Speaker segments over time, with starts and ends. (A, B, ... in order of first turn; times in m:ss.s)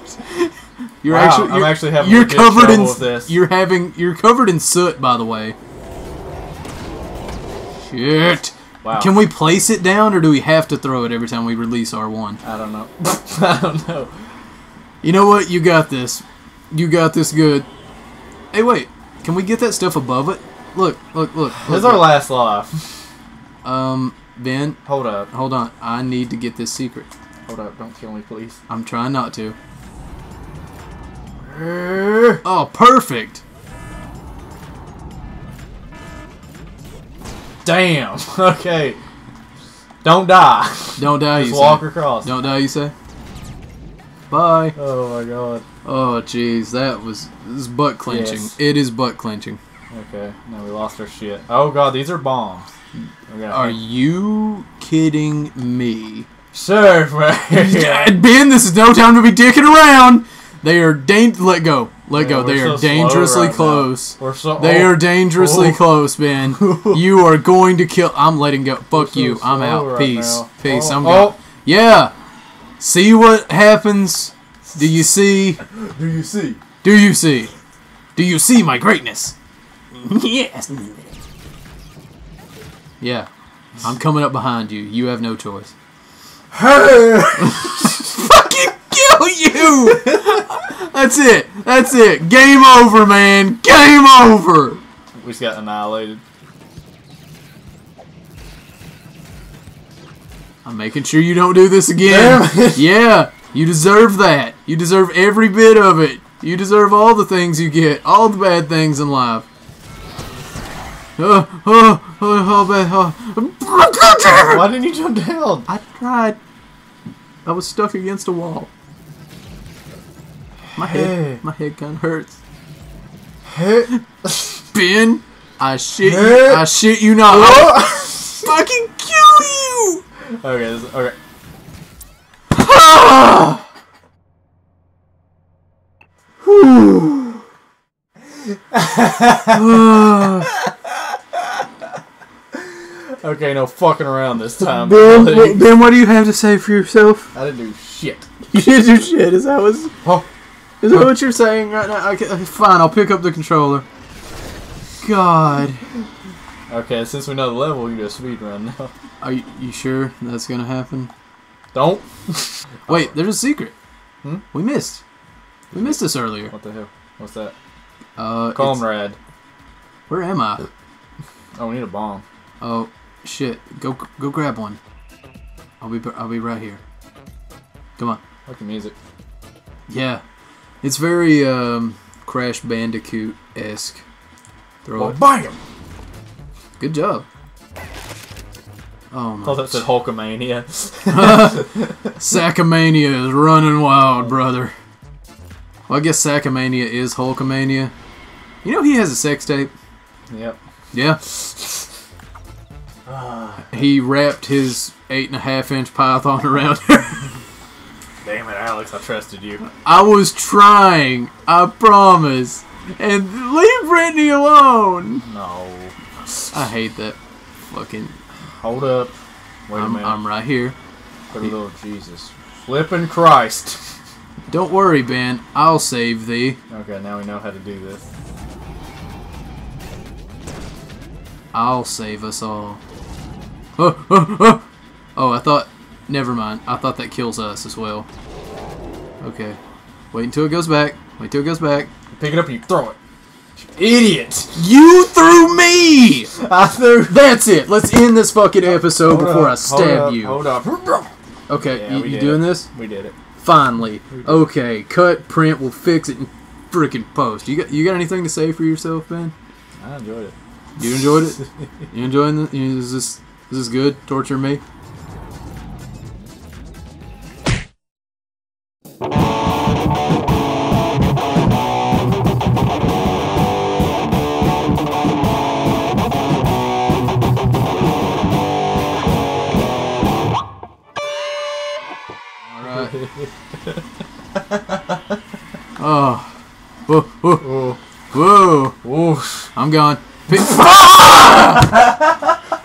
0:00.2-0:05.6 A
0:01.1-0:03.3 B
0:07.8-0:12.4 A
0:08.8-0:09.2 B
0:12.4-0:14.1 B
0:15.0-0:17.7 A
0:18.5-0:22.2 A
0:21.5-0:23.0 B
0:23.6-0:24.8 A
0:24.9-0:25.3 B
0:25.3-0:27.1 A
0:27.5-0:28.6 B
0:28.7-0:29.6 A
0:31.4-0:32.4 B
0:32.4-0:33.4 A
0:37.6-0:39.0 B
0:40.0-0:42.3 B
0:41.0-0:42.9 A
0:44.3-0:44.8 A
0:44.8-0:45.6 B
0:45.8-0:49.6 A
0:48.1-0:48.6 B
0:49.9-0:52.7 B
0:53.3-0:53.8 B
0:53.5-0:56.3 A
0:56.5-0:58.2 B
0:57.5-1:12.1 A
1:02.1-1:05.8 B
1:06.6-1:07.0 B
1:08.9-1:11.4 B
1:12.8-1:15.6 A
1:15.6-1:16.6 B
1:16.8-1:17.5 A
1:18.2-1:19.4 A
1:19.9-1:21.1 A
1:23.0-1:23.3 A
1:23.8-1:25.7 A
1:26.5-1:27.9 B
1:27.4-1:34.8 A
1:30.0-1:30.3 B
1:35.2-1:36.2 B
1:40.6-1:49.5 A
1:42.0-1:42.8 B
1:51.2-1:54.8 A
1:54.3-1:55.7 B
1:55.7-1:56.4 A
1:57.4-1:58.7 A
2:00.8-2:01.4 B
2:00.8-2:02.4 A
2:03.4-2:04.5 B
2:04.7-2:10.0 A
2:06.0-2:06.7 B
2:07.3-2:08.4 B
2:10.4-2:11.2 B
2:12.5-2:13.6 A
2:16.4-2:17.4 A
2:18.7-2:20.4 B
2:19.5-2:20.5 A
2:22.6-2:25.7 B
2:24.6-2:27.3 A
2:27.3-2:28.3 B
2:28.5-2:29.9 A
2:30.8-2:33.8 A
2:35.0-2:35.8 A
2:36.7-2:38.9 B
2:39.2-2:41.1 A
2:41.7-2:43.1 B
2:42.9-2:43.7 A
2:44.5-2:45.0 A
2:45.7-2:47.5 B
2:45.7-2:46.5 A
2:48.2-2:48.8 A
2:48.5-2:49.2 B
2:50.1-2:50.7 A
2:51.6-2:52.2 B
2:52.6-2:54.8 A
2:55.8-2:56.8 A
2:58.5-2:59.0 B
2:59.9-3:00.2 A
3:00.8-3:04.0 A
3:04.9-3:05.2 A
3:04.9-3:05.6 B
3:06.8-3:07.3 A
3:09.1-3:09.9 A
3:09.4-3:12.1 B
3:11.1-3:14.7 A
3:15.9-3:17.9 A
3:18.6-3:19.7 A
3:20.3-3:20.6 B
3:20.9-3:21.2 A
3:23.1-3:23.8 B
3:23.7-3:27.3 A
3:28.2-3:29.6 B
3:29.8-3:35.2 A
3:35.2-3:36.0 B
3:36.5-3:37.2 A
3:37.7-3:38.2 A
3:38.6-3:39.2 B
3:39.7-3:40.2 B
3:39.8-3:40.8 A
3:41.3-3:44.0 B
3:44.5-3:46.6 A
3:46.7-3:48.1 B
3:51.5-3:52.8 A
3:53.8-3:58.1 A
3:59.2-3:59.6 A
4:00.1-4:01.9 A
4:02.1-4:03.0 B
4:03.6-4:04.7 B
4:04.6-4:06.3 A
4:06.4-4:07.2 B
4:07.1-4:10.4 A
4:08.6-4:11.1 B
4:11.5-4:12.7 A
4:11.7-4:13.1 B
4:13.4-4:19.3 A
4:14.1-4:14.4 B
4:19.8-4:20.4 B
4:20.8-4:24.6 A
4:42.5-4:43.0 A
4:43.0-4:43.7 B
4:45.8-4:46.3 A
4:46.9-4:47.5 A
4:47.4-4:47.8 B
4:48.1-4:48.8 A
4:48.8-4:49.5 B
4:49.6-4:51.7 A